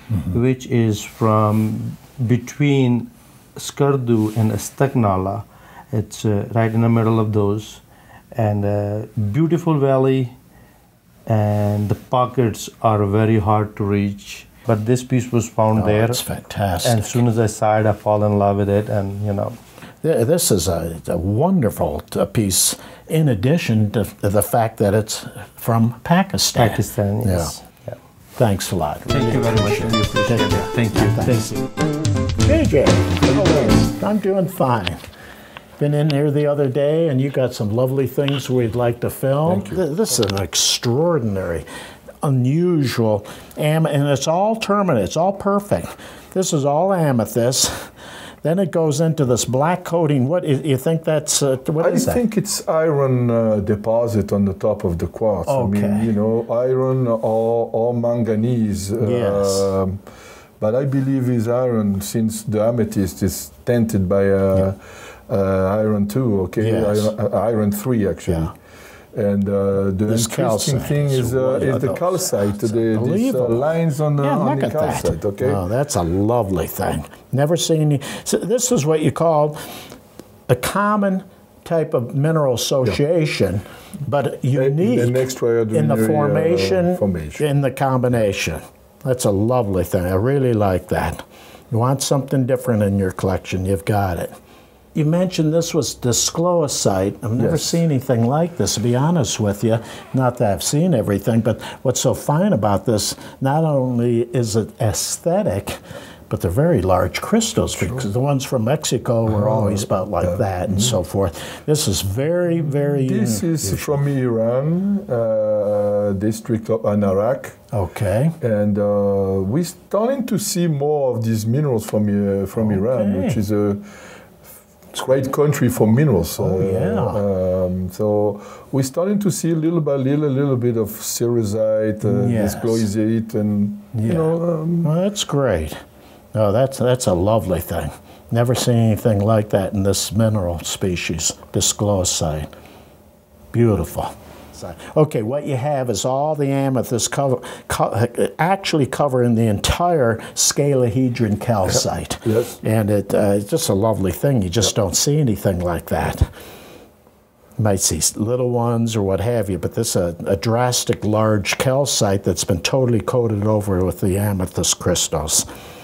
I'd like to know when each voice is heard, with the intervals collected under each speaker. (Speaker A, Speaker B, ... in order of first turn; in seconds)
Speaker A: 0.1-0.4, 15.8-17.3, 20.0-27.6, 28.4-31.7, 32.4-35.0, 35.8-41.7, 42.2-47.9, 48.4-52.2, 55.5-56.1, 59.0-59.7, 66.6-67.1, 68.3-68.5, 70.0-79.9, 80.5-94.4, 95.0-114.1, 117.7-118.4, 122.5-123.4, 126.4-127.2, 132.0-132.9, 133.9-135.8, 136.3-142.5, 143.5-156.3, 157.6-165.5
Speaker B: 0.3-10.3, 11.3-16.2, 16.8-19.6, 26.6-28.0, 29.1-31.2, 33.3-33.8
Speaker C: 39.5-39.8, 51.8-60.0, 60.6-68.5, 69.1-75.6, 84.5-87.4, 97.4-97.8, 109.3-111.0, 112.5-117.6, 118.4-123.9, 124.9-134.9, 151.7-152.6